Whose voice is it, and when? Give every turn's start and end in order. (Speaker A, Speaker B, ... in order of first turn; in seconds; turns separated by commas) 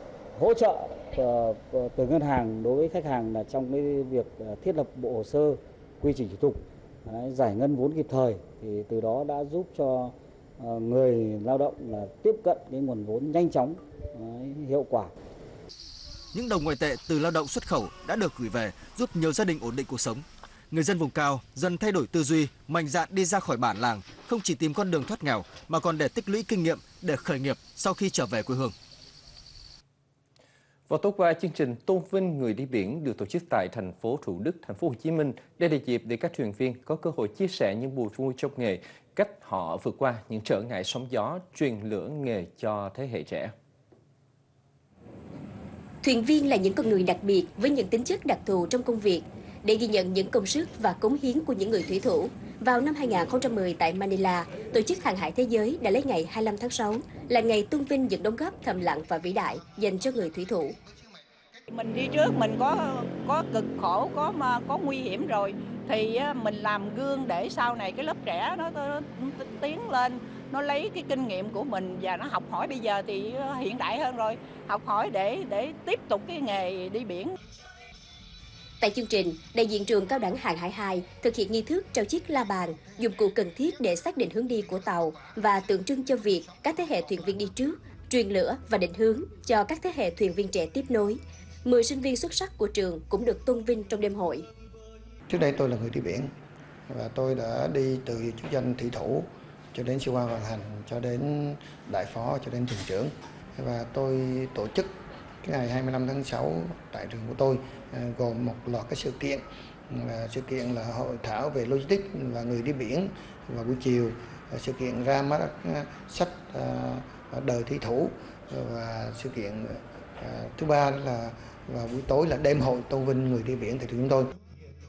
Speaker A: 0.3-15.1, Speaker B: 16.3-28.7, Speaker C: 30.9-43.5, Speaker D: 46.0-60.8, Speaker E: 61.7-77.3, Speaker D: 78.8-94.5, Speaker F: 95.3-96.3, Speaker F: 96.9-104.9, Speaker F: 105.4-124.3